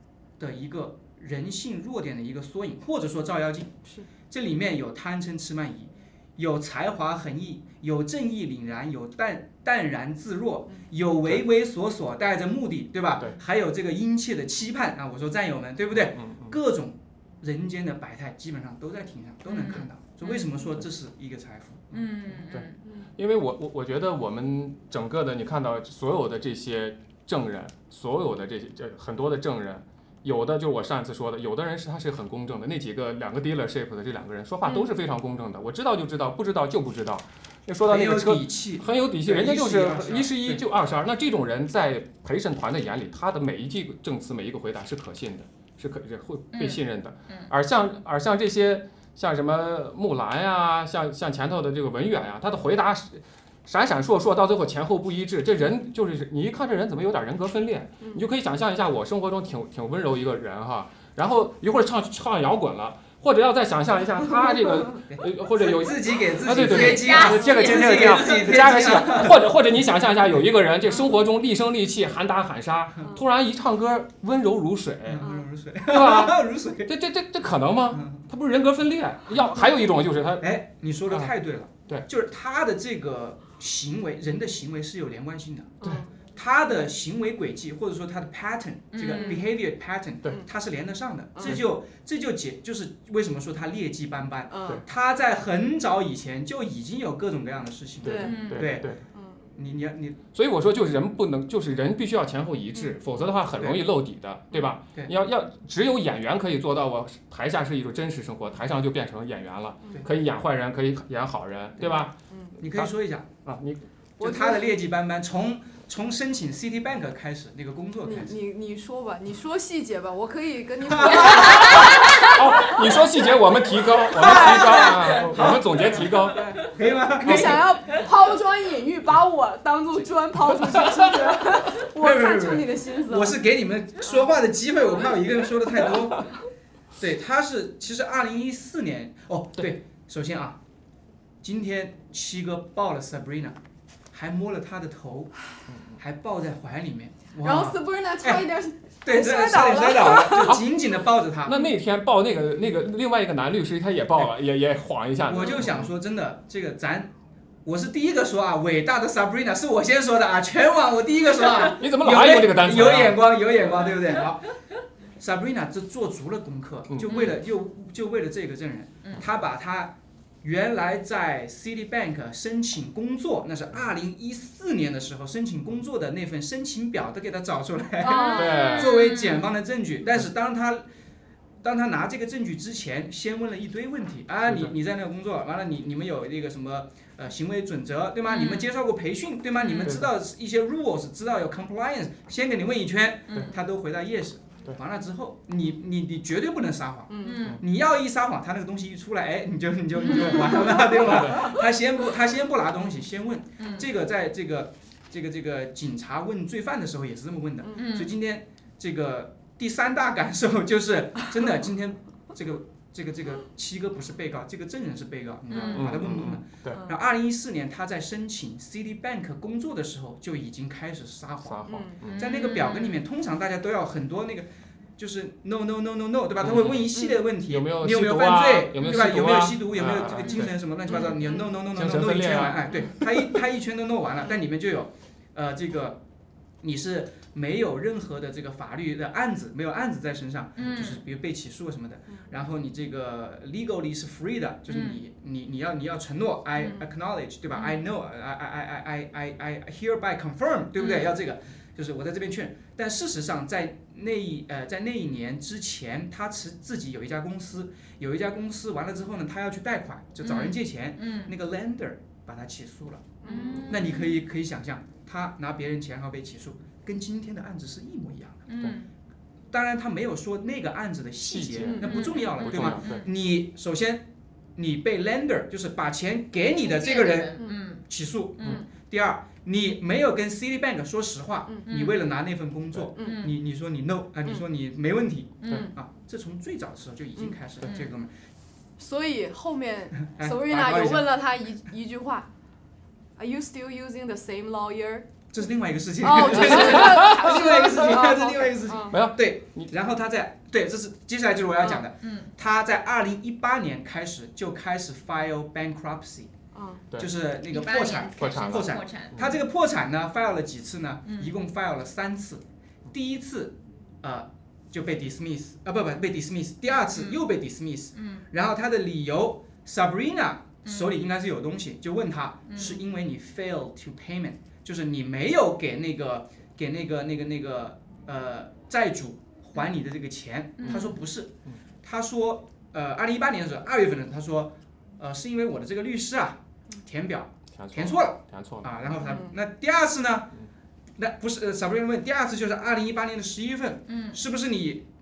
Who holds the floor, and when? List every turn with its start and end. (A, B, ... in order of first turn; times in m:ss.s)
0:00.4-0:03.8 A
0:04.3-0:22.0 A
0:15.9-0:16.6 B
0:19.5-0:20.5 C
0:21.9-0:22.8 C
0:22.5-1:15.3 B
0:34.6-0:34.9 D
0:37.8-0:40.6 A
0:46.5-0:47.5 C
1:05.1-1:09.4 A
1:06.7-1:08.4 C
1:15.0-1:16.9 A
1:15.2-1:15.4 D
1:15.8-1:20.5 B
1:17.9-1:18.3 A
1:20.4-1:38.9 A
1:25.8-1:26.1 D
1:28.9-1:29.4 C
1:29.1-1:29.4 D
1:31.3-1:31.6 D
1:34.5-1:34.8 D
1:38.0-1:39.0 B
1:38.0-1:39.4 D
1:38.2-1:38.7 C
1:39.5-1:40.2 A
1:40.3-1:52.1 B
1:43.5-1:43.8 A
1:52.6-1:53.3 A
1:53.4-1:53.8 B
1:54.2-1:58.4 A
1:54.2-1:54.8 D
1:58.0-2:03.0 D
2:00.8-2:01.6 A
2:01.1-2:02.4 C
2:01.5-2:06.5 B
2:04.1-2:07.6 A
2:04.1-2:05.3 D
2:07.2-2:13.4 D
2:07.2-2:07.6 B
2:10.8-2:11.3 B
2:11.9-2:16.3 A
2:14.8-2:15.2 D
2:17.0-2:20.6 A
2:21.4-2:23.6 A
2:24.1-2:25.3 A
2:25.7-2:26.0 B
2:26.0-2:28.5 A
2:27.4-2:30.6 D
2:29.0-2:31.6 A
2:31.4-2:35.9 B
2:35.2-2:37.1 A
2:37.6-2:44.5 A
2:41.7-2:43.3 B
2:45.2-3:00.8 A
2:46.9-2:47.3 B
2:47.1-2:47.4 C
2:58.0-2:58.8 D
2:58.3-2:59.0 B
2:58.4-2:59.5 C
3:01.6-3:56.0 A
3:04.4-3:04.7 B
3:08.3-3:08.7 C
3:09.6-3:09.9 C
3:09.8-3:10.1 B
3:13.3-3:13.5 C
3:17.1-3:17.4 D
3:17.2-3:17.6 C
3:21.0-3:21.6 B
3:23.6-3:23.9 C
3:27.7-3:28.1 C
3:35.5-3:35.9 C
3:35.7-3:36.8 B
3:36.7-3:37.0 D
3:41.4-3:42.2 B
3:41.7-3:42.0 D
3:42.1-3:43.0 C
3:46.4-3:50.6 B
3:50.2-3:51.5 C
3:51.7-3:53.3 B
3:56.6-4:28.4 A
4:00.6-4:01.0 C
4:04.7-4:05.0 C
4:07.5-4:07.8 C
4:10.8-4:11.1 C
4:20.2-4:21.3 C
4:23.2-4:24.0 D
4:23.2-4:24.2 C
4:28.5-4:28.9 C
4:29.5-4:34.0 A
4:31.3-4:33.0 B
4:31.6-4:32.1 D
4:31.8-4:33.1 C
4:34.6-4:48.1 A
4:36.6-4:37.8 C
4:38.4-4:38.6 C
4:41.7-4:42.0 C
4:43.0-4:43.3 D
4:43.0-4:43.3 C
4:45.4-4:45.7 C
4:48.8-4:52.3 D
4:50.1-4:51.1 A
4:53.2-4:55.1 D
4:55.3-5:06.3 A
4:56.0-4:59.0 D
4:56.3-4:58.0 B
4:58.9-4:59.7 B
5:01.6-5:02.3 C
5:06.5-5:06.8 D
5:07.0-5:40.3 A
5:07.5-5:09.3 C
5:08.2-5:09.4 B
5:11.0-5:11.3 C
5:16.8-5:17.2 C
5:17.9-5:18.2 C
5:20.6-5:20.9 C
5:22.5-5:22.8 C
5:30.6-5:30.9 C
5:30.6-5:30.9 B
5:37.5-5:38.7 B
5:39.0-5:39.3 D
5:41.0-5:44.8 A
5:43.9-5:44.2 C